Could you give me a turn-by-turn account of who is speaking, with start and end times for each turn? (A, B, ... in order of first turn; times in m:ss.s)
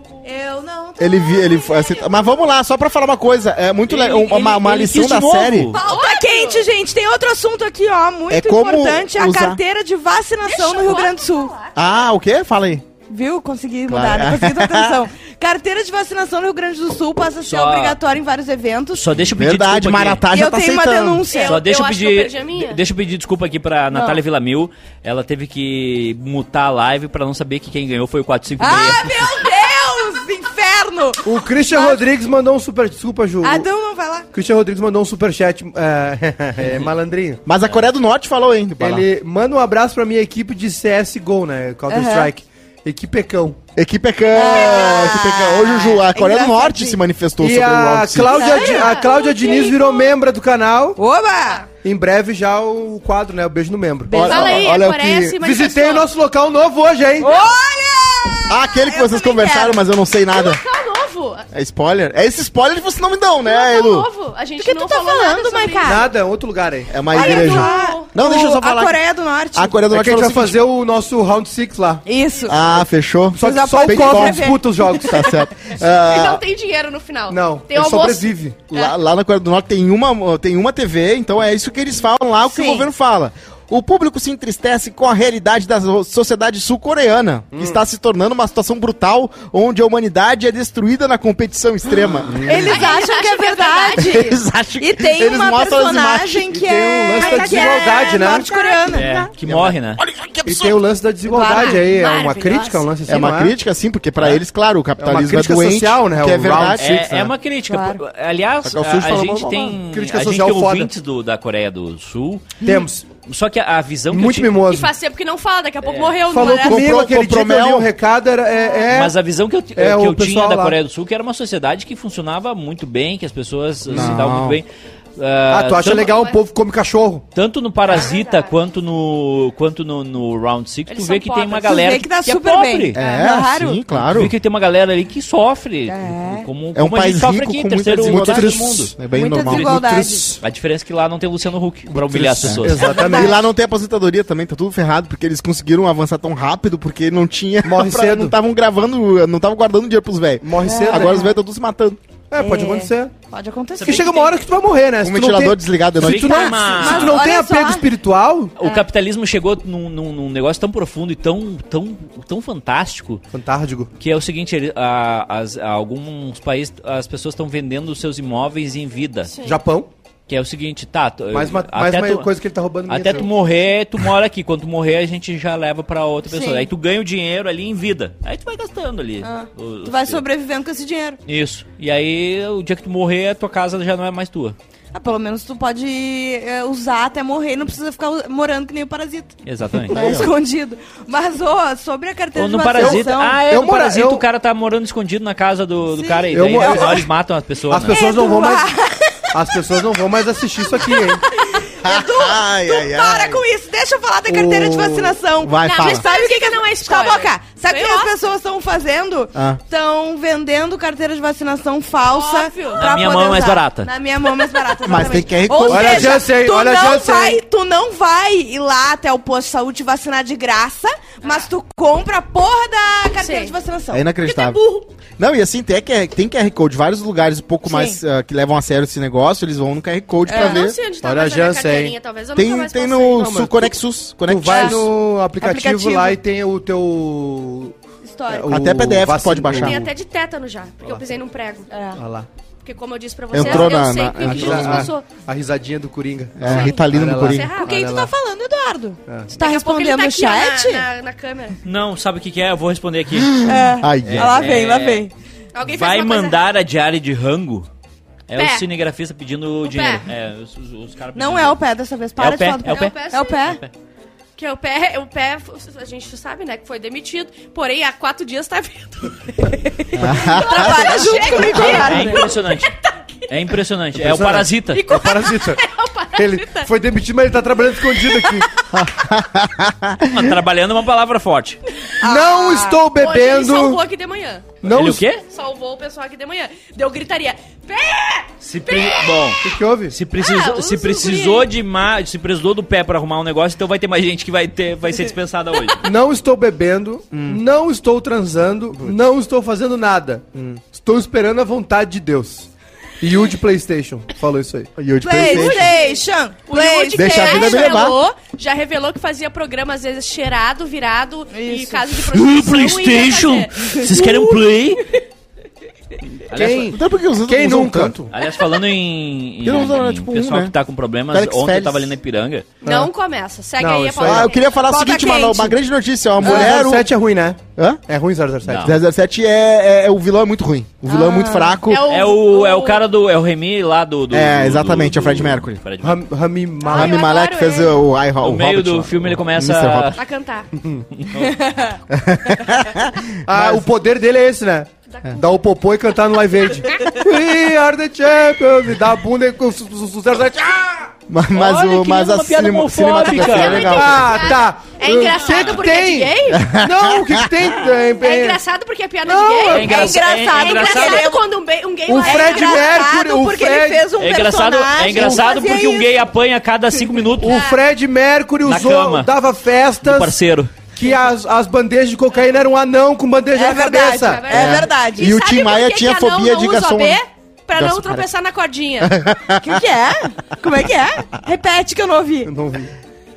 0:00.2-0:02.3 A
0:01.0-0:05.7 B
0:03.9-0:05.8 C
0:05.7-0:06.7 D
0:05.7-0:11.5 A
0:08.3-0:09.6 B
0:10.4-0:11.8 D
0:11.8-0:12.8 B
0:13.1-0:19.0 A
0:13.9-0:15.0 B
0:17.4-0:18.0 C
0:18.9-0:20.2 C
0:19.3-0:21.2 B
0:20.3-0:21.6 A
0:21.3-0:22.8 D
0:21.4-0:29.0 C
0:23.9-0:24.2 A
0:28.6-0:32.0 A
0:31.2-0:33.7 E
0:33.4-0:34.3 A
0:34.3-0:37.4 E
0:37.4-0:39.0 B
0:38.8-0:43.6 E
0:41.9-0:42.3 A
0:43.8-0:48.5 B
0:44.3-0:47.0 A
0:47.4-0:51.0 E
0:48.3-0:48.9 A
0:48.3-0:50.1 D
0:51.0-0:51.6 A
0:51.8-0:54.5 E
0:54.1-0:54.7 A
0:54.1-0:55.4 B
0:54.2-0:56.1 D
0:55.4-0:57.3 E
0:57.2-0:59.8 A
0:58.5-1:00.6 B
1:00.3-1:01.4 D
1:01.5-1:04.1 B
1:03.4-1:06.1 D
1:04.6-1:06.1 A
1:05.8-1:07.0 E
1:06.9-1:09.0 B
1:07.1-1:08.1 D
1:07.1-1:09.7 A
1:09.5-1:10.6 B
1:09.9-1:12.0 E
1:12.0-1:12.7 A
1:12.4-1:16.4 B
1:12.6-1:15.4 E
1:13.4-1:15.1 A
1:15.8-1:18.3 D
1:17.3-1:18.6 E
1:18.7-1:32.7 B
1:22.4-1:22.9 A
1:27.5-1:27.8 E
1:32.2-1:32.7 E
1:32.4-1:39.2 A
1:32.6-1:34.3 D
1:34.0-1:36.5 B
1:36.5-1:38.8 E
1:37.2-1:38.1 D
1:38.9-1:40.0 C
1:39.0-1:40.8 B
1:40.4-1:43.5 E
1:41.3-1:42.0 A
1:41.5-1:42.9 D
1:43.0-1:47.0 B
1:45.0-1:47.3 E
1:46.8-1:52.6 C
1:47.7-1:48.0 A
1:48.6-1:49.8 B
1:49.7-1:50.9 E
1:52.6-1:53.1 E
1:53.2-1:54.6 C
1:54.1-1:54.9 E
1:54.6-1:56.9 D
1:55.8-1:56.2 C
1:56.3-1:59.1 E
1:56.4-1:57.9 B
1:58.9-2:06.3 C
1:59.8-2:00.8 E
2:03.9-2:04.2 E
2:03.9-2:04.6 B
2:05.5-2:07.2 E
2:06.0-2:06.3 D
2:07.3-2:13.0 C
2:07.9-2:08.6 D
2:10.9-2:11.9 D
2:11.6-2:13.8 A
2:13.0-2:14.3 B
2:13.0-2:13.3 D
2:13.9-2:18.9 C
2:15.9-2:16.5 A
2:16.7-2:19.8 B
2:18.0-2:18.9 E
2:19.1-2:20.3 A
2:19.4-2:20.4 E
2:20.4-2:23.1 C
2:21.9-2:23.5 E
2:22.4-2:32.0 B
2:22.8-2:23.4 A
2:27.6-2:28.3 E
2:30.4-2:31.3 E
2:30.6-2:31.4 A
2:32.3-2:33.1 E
2:32.4-2:34.4 A
2:33.8-2:34.2 C
2:33.8-2:38.5 E
2:35.0-2:36.4 B
2:36.0-2:37.3 C
2:36.2-2:37.9 A
2:38.6-2:43.2 C
2:43.3-2:43.9 E
2:44.0-2:49.3 C
2:49.3-2:49.6 D
2:49.4-2:49.9 E
2:50.3-2:52.3 C
2:51.3-2:53.3 E
2:52.9-3:00.2 C
2:56.2-2:56.7 A
2:59.2-3:01.2 A
3:01.2-3:04.6 C
3:04.9-3:09.4 A
3:09.4-3:10.0 C
3:09.9-3:10.3 B
3:09.9-3:13.4 A
3:12.4-3:18.0 C
3:12.8-3:14.2 E
3:15.9-3:17.0 A
3:16.3-3:17.1 E
3:17.7-3:18.7 E
3:17.8-3:19.6 A
3:19.3-3:21.2 E
3:20.8-3:44.1 A
3:21.8-3:23.4 B
3:24.3-3:25.2 E
3:25.4-3:26.0 B
3:25.6-3:28.1 D
3:32.0-3:32.9 D
3:32.8-3:33.9 C
3:34.8-3:36.2 B
3:35.7-3:37.4 E
3:41.2-3:41.5 D
3:43.2-3:43.5 D
3:43.9-3:44.6 B
3:44.2-3:44.8 D
3:45.2-3:50.8 B
3:47.6-3:48.0 A
3:50.3-3:50.7 A
3:50.3-3:53.6 D
3:51.0-3:52.0 E
3:52.3-3:54.9 B
3:53.3-3:53.6 E
3:54.2-3:57.7 E
3:54.5-3:54.8 A
3:55.4-3:56.2 A
3:58.0-3:58.6 A
3:58.3-3:59.9 E
3:58.5-3:59.8 B
3:59.5-4:01.7 D
4:01.7-4:02.0 A
4:02.0-4:02.3 E
4:02.6-4:05.1 D
4:03.3-4:04.9 B
4:03.3-4:08.1 E
4:06.4-4:07.5 B
4:06.5-4:07.8 D
4:07.5-4:10.9 A
4:09.1-4:09.3 E
4:09.3-4:11.6 D
4:11.6-4:13.5 C
4:13.2-4:14.5 B
4:13.4-4:15.1 A
4:14.0-4:15.0 C
4:15.5-4:16.4 D
4:15.6-4:17.7 C
4:18.3-4:21.6 C
4:18.3-4:18.6 D
4:19.6-4:20.1 D
4:21.1-4:23.6 A
4:22.2-4:23.7 C
4:22.6-4:23.4 D
4:24.4-4:33.3 D
4:29.9-4:31.7 B
4:30.0-4:32.3 A
4:31.6-4:32.8 C
4:33.3-4:34.8 C
4:33.9-4:35.6 E
4:34.7-4:36.7 D
4:36.1-4:38.5 E
4:38.7-4:40.3 B
4:40.0-4:41.6 C
4:42.0-4:42.8 A
4:42.0-4:43.8 E
4:42.6-4:44.6 D
4:44.6-4:45.0 E
4:44.7-4:45.2 C
4:45.2-4:49.4 D
4:48.4-4:55.9 C
4:49.4-4:50.0 E
4:50.2-4:51.5 D
4:55.8-5:02.5 E
4:57.1-4:57.4 B
5:00.3-5:00.6 B
5:03.0-5:04.7 E
5:04.8-5:05.8 B
5:05.0-5:07.9 A
5:05.2-5:15.0 D
5:06.9-5:08.0 B
5:11.3-5:11.8 A
5:11.9-5:14.8 C
5:16.3-5:16.8 C
5:16.3-5:18.1 E
5:16.7-5:18.1 B
5:18.1-5:22.5 C
5:19.4-5:20.5 B
5:21.1-5:21.9 B
5:22.6-5:22.9 E
5:22.6-5:24.6 D
5:23.6-5:24.3 E
5:24.0-5:26.9 B
5:24.6-5:25.6 A
5:26.2-5:28.7 E
5:28.4-5:28.7 C
5:28.6-5:31.9 B
5:30.9-5:31.6 A
5:31.6-5:32.8 D
5:31.8-5:36.0 C
5:34.1-5:35.6 B
5:35.8-5:37.0 E
5:36.6-5:37.8 D
5:36.7-5:40.0 B
5:38.2-5:40.0 C
5:40.0-5:40.5 D
5:40.6-5:40.8 E
5:40.9-5:41.4 C
5:41.2-5:41.8 A
5:41.9-5:43.6 B
5:43.2-5:50.9 E
5:44.9-5:45.2 D
5:46.7-5:46.9 D
5:51.1-5:54.1 B
5:51.3-5:53.9 C
5:53.0-5:56.5 D
5:53.5-5:58.4 E
5:55.1-5:55.6 C
5:56.3-5:57.3 B
5:58.0-6:02.8 D
5:59.0-5:59.8 E
5:59.5-6:01.2 A
5:59.5-6:01.1 C
6:01.9-6:03.9 E
6:01.9-6:05.9 A
6:04.0-6:07.4 C
6:04.9-6:05.7 D
6:07.2-6:10.2 E
6:07.2-6:07.6 D
6:08.4-6:09.1 C
6:09.8-6:10.5 C
6:10.7-6:14.3 E
6:13.3-6:15.2 A
6:13.9-6:18.9 D
6:14.3-6:17.0 B
6:17.5-6:18.0 B
6:18.8-6:19.6 B
6:19.4-6:22.3 A
6:22.2-6:22.7 E